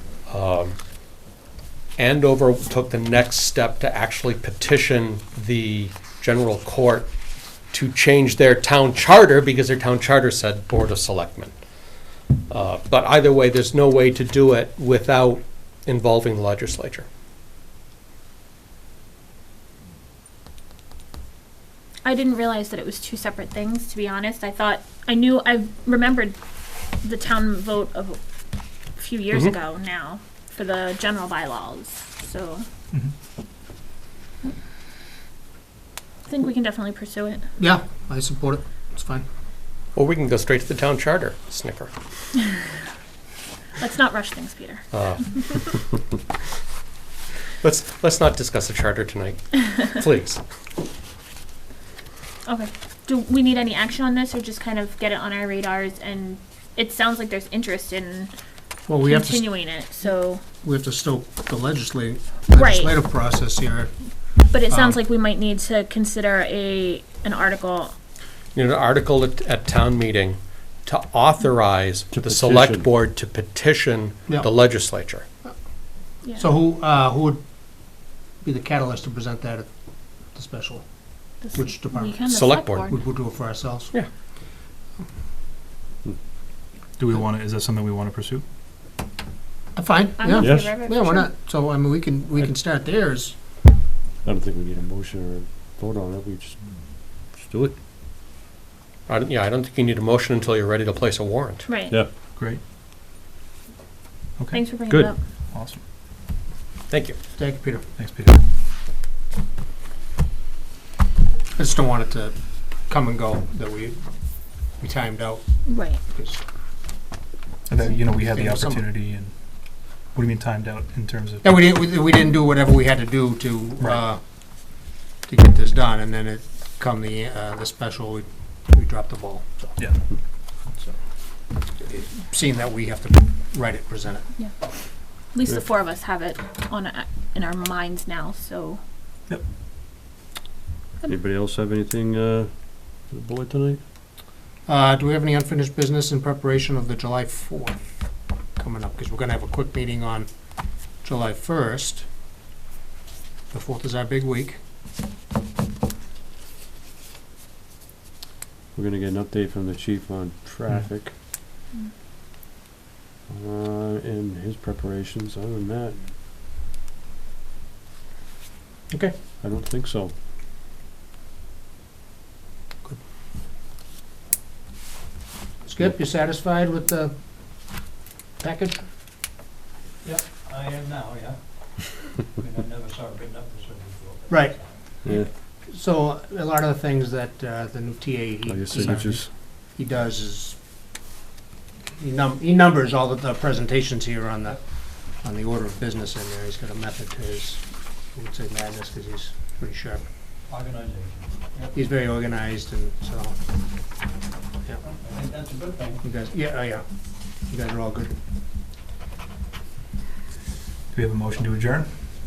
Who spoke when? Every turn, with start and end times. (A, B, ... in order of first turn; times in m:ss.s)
0:00.3-0:00.8 A
0:02.0-0:07.1 A
0:07.7-0:11.6 A
0:12.5-0:17.1 A
0:22.0-0:26.4 B
0:27.0-0:28.2 B
0:29.0-0:32.7 B
0:36.3-0:37.4 B
0:37.6-0:39.2 C
0:40.0-0:41.9 A
0:43.8-0:45.6 B
0:44.9-0:45.8 A
0:47.6-0:50.4 A
0:52.5-0:58.3 B
0:58.9-0:59.7 C
0:59.0-1:00.4 B
1:00.6-1:03.9 C
1:02.5-1:02.9 B
1:04.5-1:07.9 B
1:04.7-1:05.0 C
1:08.6-1:15.2 A
1:12.1-1:12.9 D
1:16.2-1:19.7 C
1:20.2-1:24.0 C
1:21.4-1:23.0 B
1:22.3-1:22.9 A
1:27.0-1:28.4 E
1:29.8-1:33.4 C
1:30.2-1:31.3 B
1:30.4-1:30.8 D
1:34.2-1:37.8 D
1:39.1-1:41.7 A
1:41.7-1:42.0 B
1:42.3-1:42.6 E
1:44.4-1:44.8 E
1:44.5-1:45.2 B
1:44.9-1:45.1 D
1:45.5-1:45.8 E
1:46.9-1:47.2 A
1:47.4-1:47.8 C
1:48.0-1:48.4 E
1:51.6-1:56.4 C
1:55.7-1:56.0 B
1:57.7-2:01.4 E
1:58.1-1:58.8 C
2:01.4-2:09.7 C
2:11.8-2:14.3 C
2:15.2-2:18.8 B
2:21.1-2:23.8 D
2:24.7-2:27.8 C
2:28.6-2:30.3 C
2:30.9-2:32.1 C
2:33.5-2:34.6 C
2:38.8-2:41.1 D
2:43.3-2:46.1 D
2:48.9-2:49.2 C
2:49.4-2:50.1 D
2:55.6-2:57.1 C
2:58.4-2:58.9 C
3:00.0-3:01.4 F
3:02.4-3:04.6 F
3:04.3-3:10.6 C
3:05.0-3:05.3 D
3:08.5-3:09.3 D
3:12.0-3:20.0 C
3:20.5-3:21.7 F
3:21.7-3:23.4 C
3:24.8-3:26.0 F
3:26.0-3:26.8 C
3:27.5-3:28.1 C
3:30.9-3:32.0 E